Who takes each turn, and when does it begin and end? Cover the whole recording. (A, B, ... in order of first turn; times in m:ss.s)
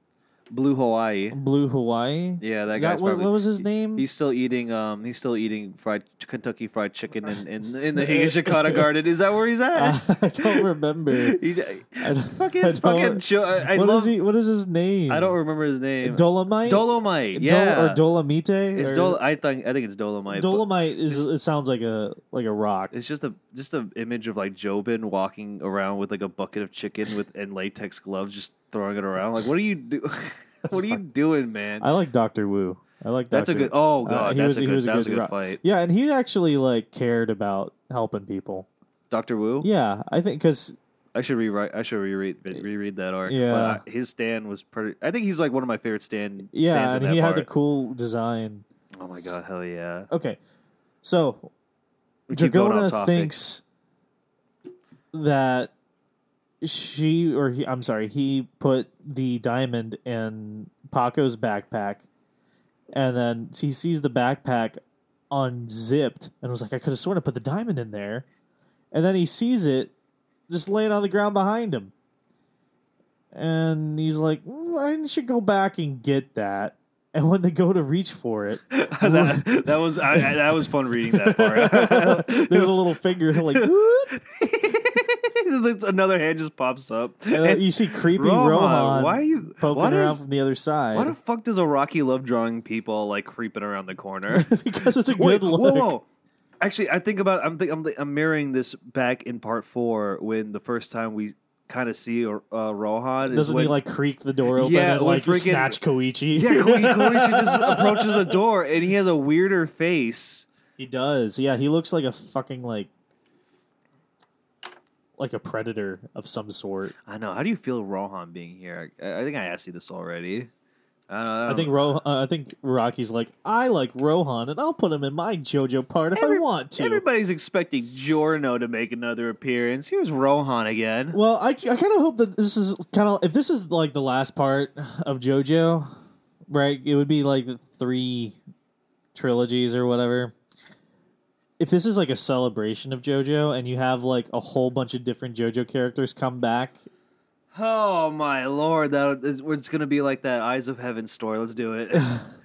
0:00.5-0:01.4 A
0:01.3-0:04.1 B
0:02.4-0:14.1 A
0:07.9-0:08.9 B
0:09.7-0:11.4 B
0:12.0-0:15.4 B
0:15.1-0:18.0 A
0:16.0-0:19.2 B
0:18.8-0:21.3 A
0:20.3-0:23.0 B
0:22.9-0:31.8 A
0:30.7-0:31.0 B
0:31.8-0:38.7 B
0:33.3-0:35.6 A
0:39.1-0:39.7 A
0:39.6-0:40.8 B
0:41.1-0:47.5 A
0:43.2-0:43.8 B
0:46.5-0:48.6 B
0:49.0-0:50.1 A
0:50.1-0:50.4 B
0:51.0-0:51.5 B
0:52.3-0:53.4 A
0:52.3-0:53.6 B
0:55.1-0:55.7 B
0:56.6-1:02.1 B
1:02.9-1:04.8 B
1:05.3-1:08.2 B
1:08.9-1:09.9 B
1:10.5-1:11.9 B
1:13.3-1:24.1 B
1:18.7-1:22.8 A
1:23.5-1:30.2 A
1:27.3-1:31.2 B
1:30.9-1:36.0 A
1:34.3-1:35.9 B
1:36.6-1:43.8 A
1:43.2-1:48.3 B
1:44.5-1:45.8 A
1:46.3-1:50.5 A
1:50.8-1:52.9 B
1:55.2-1:56.9 B
1:57.1-2:00.5 A
2:01.1-2:01.9 A
2:01.5-2:07.0 B
2:06.1-2:11.2 A
2:11.1-2:15.9 B
2:16.5-2:18.4 B
2:19.2-2:20.3 B
2:21.6-2:26.8 B
2:27.5-2:32.1 A
2:32.0-2:32.3 B